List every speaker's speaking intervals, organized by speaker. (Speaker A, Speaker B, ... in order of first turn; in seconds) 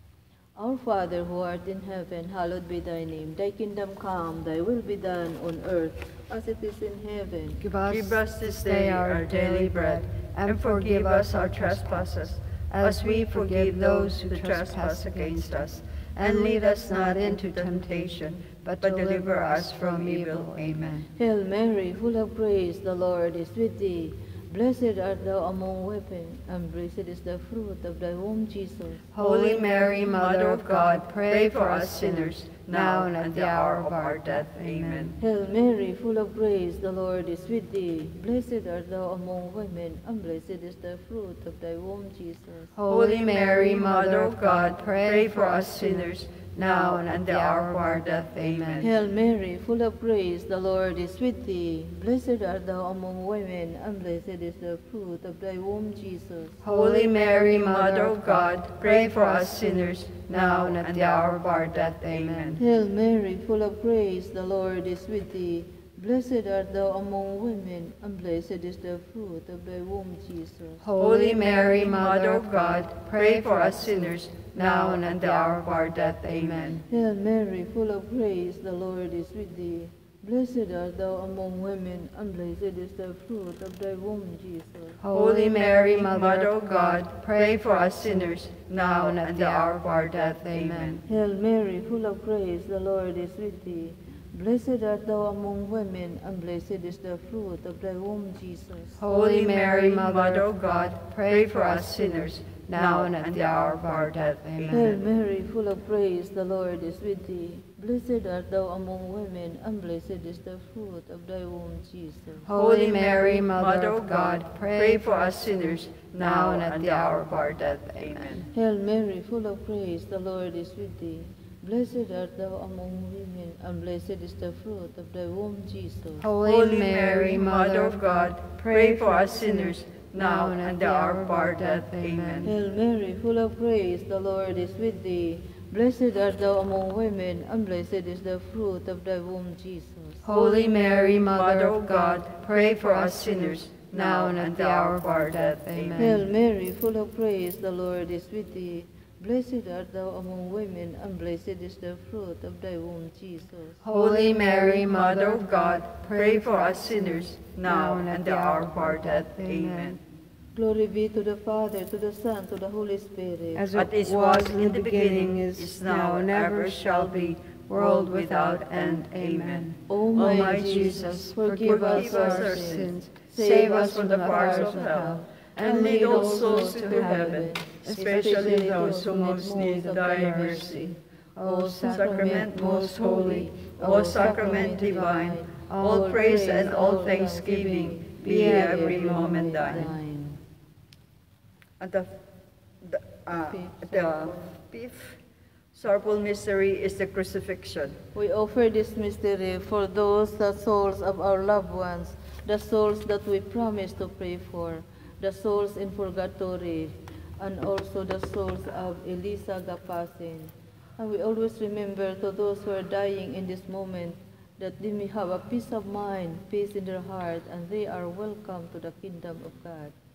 Speaker A: 0.6-7.6, 21.1-29.1, 35.2-42.7, 48.8-56.6, 62.5-70.8, 76.9-85.0, 91.0-99.0, 104.7-112.5, 118.5-126.3, 132.4-140.3, 146.0-153.8, 160.5-163.7, 169.9-190.4, 193.5-194.5, 198.1-219.9
Speaker B: 7.6-12.2, 12.7-21.1, 29.1-35.2, 42.7-48.9, 56.6-62.6, 70.8-76.8, 85.0-91.0, 99.0-105.0, 112.4-115.6, 116.2-118.4, 126.2-132.5, 140.2-146.3, 153.8-160.0, 163.5-175.0, 175.5-189.9
Speaker C: 7.9-21.0, 29.2-35.1, 42.9-48.9, 56.7-62.6, 71.0-76.8, 85.1-91.0, 99.1-105.1, 112.5-118.5, 126.4-132.5, 140.3-146.2, 153.9-160.0, 163.7-180.8, 181.8-189.9, 191.8-192.1, 192.8-195.2, 195.7-198.0